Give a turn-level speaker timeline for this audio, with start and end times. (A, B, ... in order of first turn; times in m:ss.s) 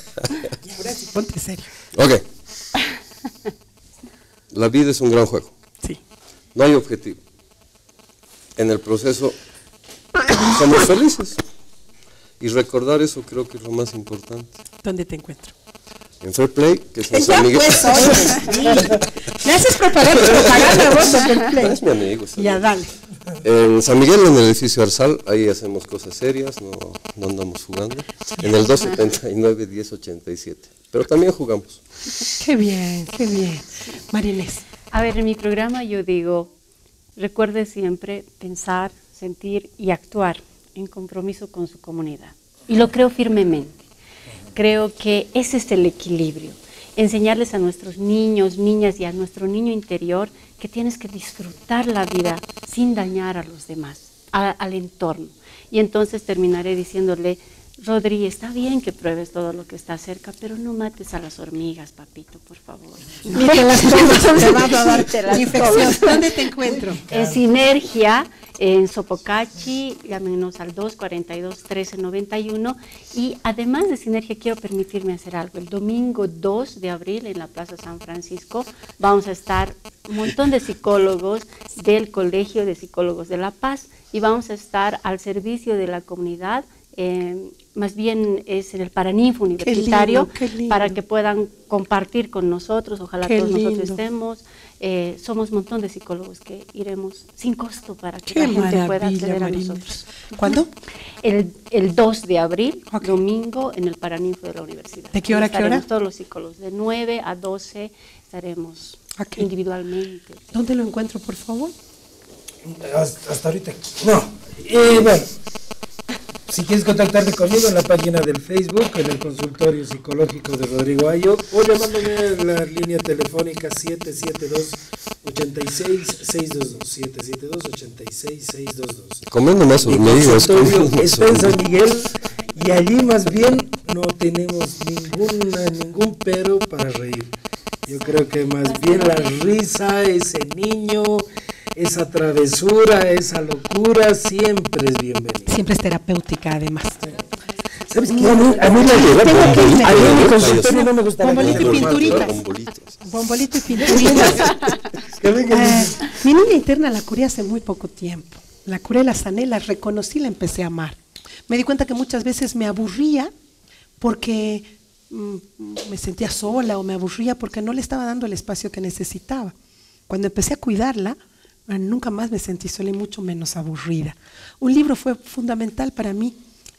0:00.6-0:01.7 A
0:01.9-0:02.3 B
0:04.5-0:05.5 B
0:06.6-0:07.2 B
0:08.6-0:09.4 B
0:10.2-0:10.8 A
0:10.4-0:11.4 B
0:12.4-0:14.6 B
0:14.8-0:15.5 A
0:16.2-0:19.0 B
0:17.1-0:21.8 A
0:18.6-0:19.0 C
0:20.2-0:22.7 B
0:22.4-0:22.9 A
0:23.4-0:31.8 B
0:32.4-0:34.6 A
0:34.9-0:36.6 D
0:37.2-0:43.7 D
0:44.5-1:06.3 D
1:03.3-1:07.0 A
1:06.6-1:07.4 C
1:07.1-1:40.6 D
1:29.6-1:31.0 A
1:33.2-1:34.0 A
1:38.3-1:40.7 A
1:41.2-1:50.4 D
1:42.9-1:43.2 A
1:45.1-1:45.8 A
1:49.2-1:49.5 A
1:50.5-1:51.7 A
1:52.6-1:55.3 C
1:56.5-2:09.2 C
2:09.3-2:11.6 B
2:09.9-2:17.3 C
2:17.9-2:25.6 C
2:25.5-2:27.1 A
2:27.9-2:32.4 C
2:28.1-2:32.4 A
2:28.3-2:33.1 B
2:33.0-2:34.7 A
2:33.7-2:36.2 C
2:35.5-2:43.3 A
2:44.0-2:49.5 A
2:50.1-2:56.4 A